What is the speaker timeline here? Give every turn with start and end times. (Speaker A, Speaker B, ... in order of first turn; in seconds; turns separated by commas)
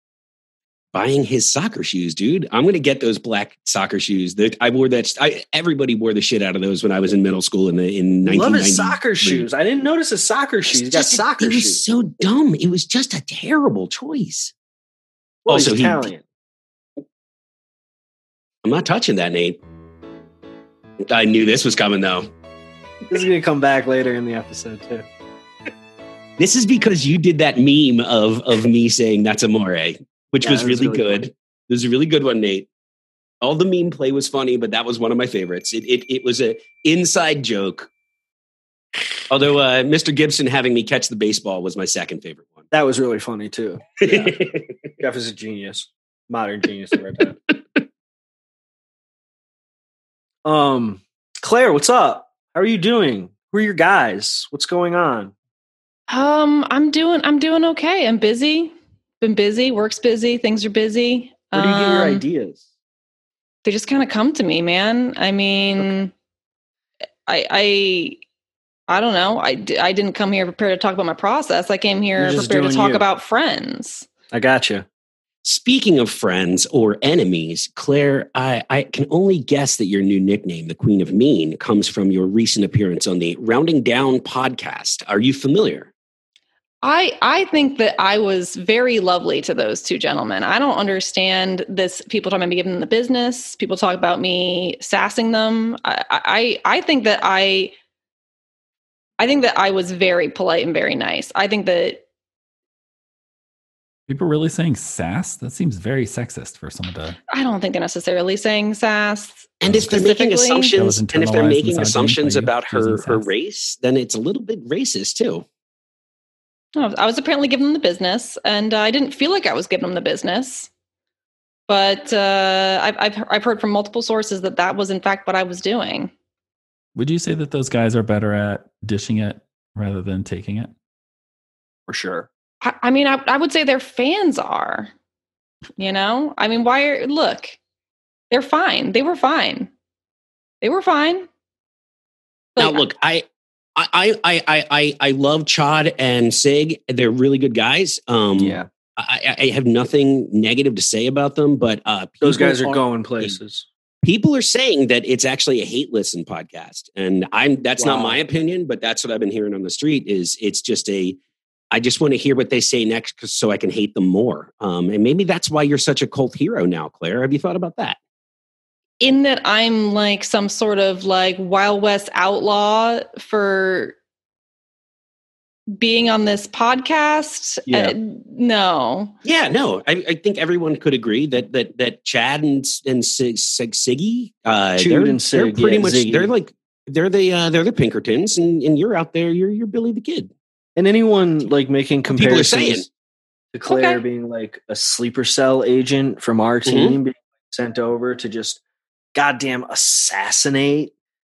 Speaker A: 0.9-9.4, Speaker B: 8.2-11.8, Speaker A: 10.7-14.5, Speaker B: 15.4-16.2, Speaker A: 15.5-16.1, Speaker A: 18.6-19.6, Speaker A: 21.0-22.3, Speaker B: 23.1-25.1, Speaker A: 26.4-32.7, Speaker B: 30.4-31.2, Speaker A: 33.4-37.9, Speaker A: 39.3-42.6, Speaker B: 42.7-44.4, Speaker A: 44.0-44.7, Speaker B: 45.0-47.4, Speaker B: 50.4-55.3, Speaker C: 56.1-62.2, Speaker B: 61.5-62.6, Speaker C: 63.6-66.1, Speaker C: 67.3-68.2, Speaker C: 68.9-74.1, Speaker B: 72.2-73.0, Speaker B: 74.3-74.8, Speaker A: 75.4-85.9, Speaker C: 86.8-97.7, Speaker C: 99.2-102.0, Speaker D: 104.1-107.2, Speaker C: 107.3-110.8, Speaker A: 109.6-115.4, Speaker D: 109.7-109.9, Speaker D: 110.7-113.3, Speaker C: 116.8-120.7, Speaker C: 121.7-126.1, Speaker D: 126.9-130.7, Speaker B: 131.9-132.3, Speaker C: 132.6-134.9, Speaker C: 135.8-137.6, Speaker C: 138.3-139.7, Speaker C: 140.6-141.3, Speaker C: 142.6-142.8, Speaker A: 142.6-143.2, Speaker A: 143.8-153.4, Speaker B: 148.4-148.7, Speaker B: 152.2-153.7, Speaker A: 154.0-161.2, Speaker B: 157.8-158.2, Speaker A: 161.7-168.0, Speaker C: 169.0-173.9, Speaker C: 175.7-179.1, Speaker B: 177.7-177.9, Speaker A: 179.2-190.3, Speaker B: 184.8-186.3, Speaker B: 190.8-192.8, Speaker A: 192.1-192.9, Speaker B: 193.5-198.6, Speaker C: 193.7-194.0, Speaker A: 196.6-197.0, Speaker B: 199.1-200.9